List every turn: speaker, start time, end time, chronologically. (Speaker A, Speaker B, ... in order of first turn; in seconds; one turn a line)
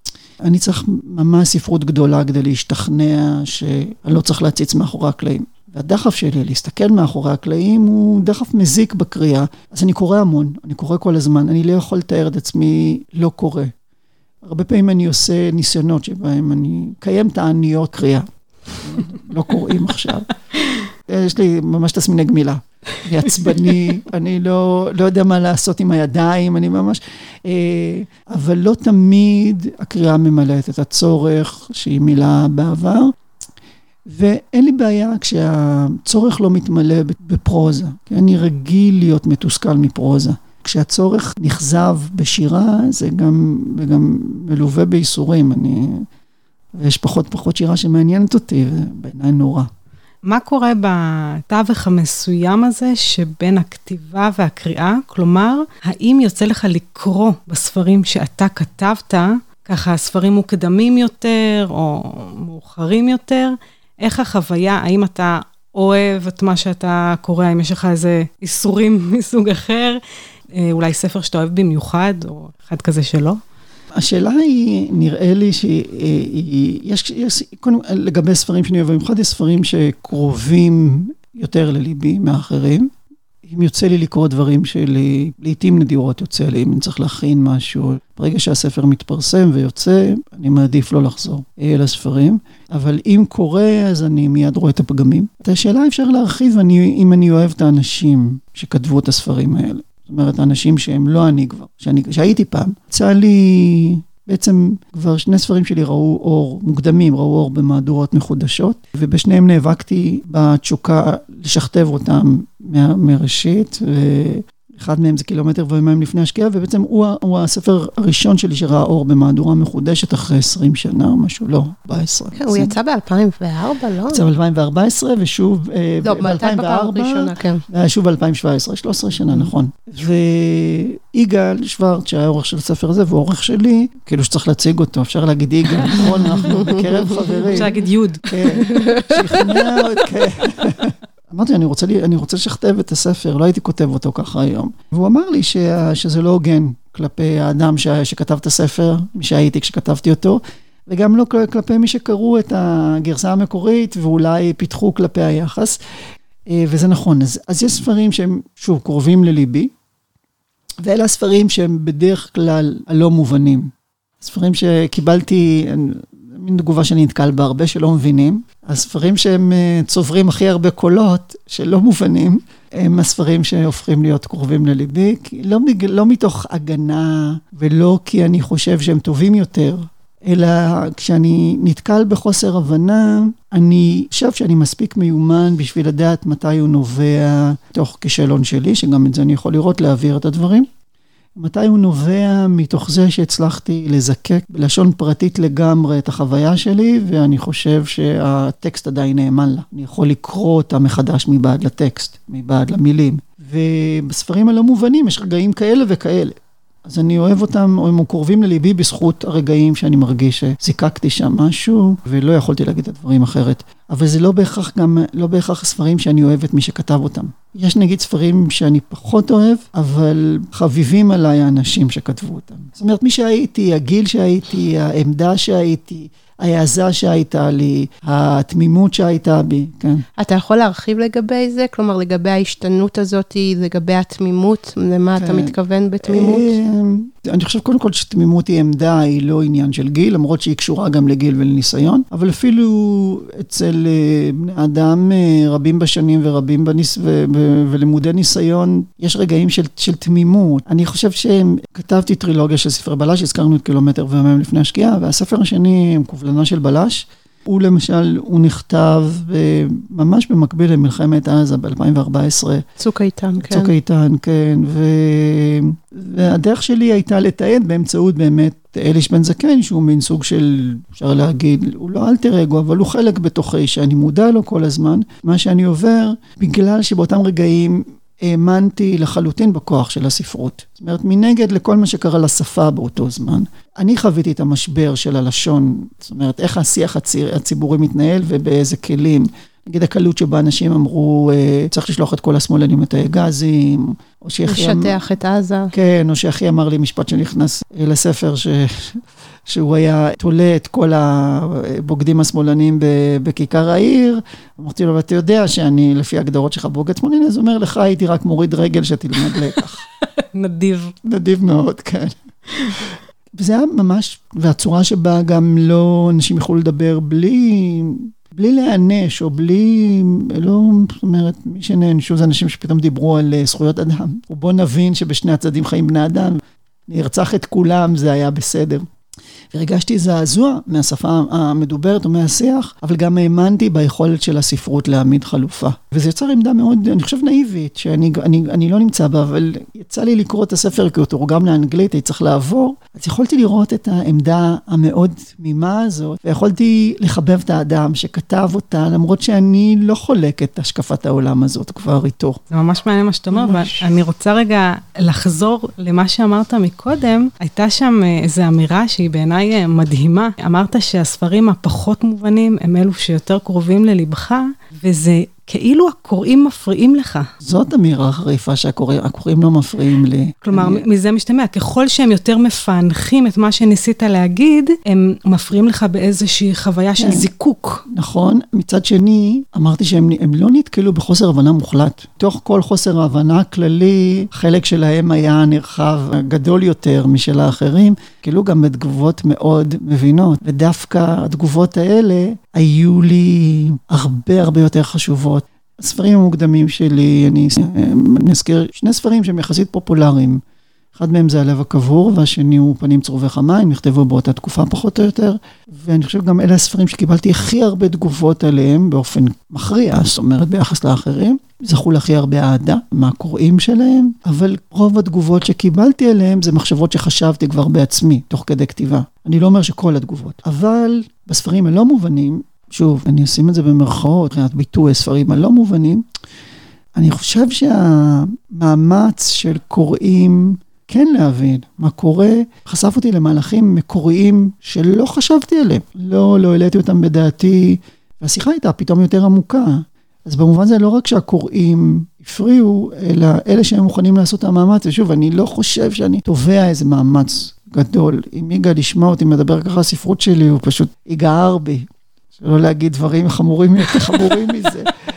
Speaker A: 0.4-13.7
Speaker A: 14.4-18.3
Speaker A: 18.8-20.3
Speaker A: 21.0-33.1
Speaker A: 34.1-46.1
Speaker A: 46.8-49.7
Speaker B: 50.2-70.0
Speaker B: 70.5-73.4
Speaker A: 74.0-82.9
Speaker A: 83.4-122.8
Speaker C: 122.3-124.2
Speaker A: 124.1-137.7
Speaker C: 126.0-127.6
Speaker B: 137.5-138.2
Speaker A: 138.2-155.8
Speaker C: 138.7-139.2
Speaker A: 156.5-159.7
Speaker A: 160.8-190.7
Speaker A: 191.3-230.0
Speaker C: 230.2-236.5
Speaker A: 235.2-262.6
Speaker C: 262.8-263.7
Speaker A: 263.4-295.0
Speaker C: 294.5-295.7
Speaker A: 295.7-309.8
Speaker B: 310.3-310.9
Speaker A: 311.0-328.9
Speaker A: 329.5-352.4
Speaker B: 352.5-367.3
Speaker A: 353.3-353.8
Speaker A: 367.4-370.8
Speaker B: 370.4-377.8
Speaker A: 377.0-377.3
Speaker A: 377.9-400.4
Speaker A: 400.9-426.0
Speaker A: 426.9-451.9
Speaker A: 452.4-454.9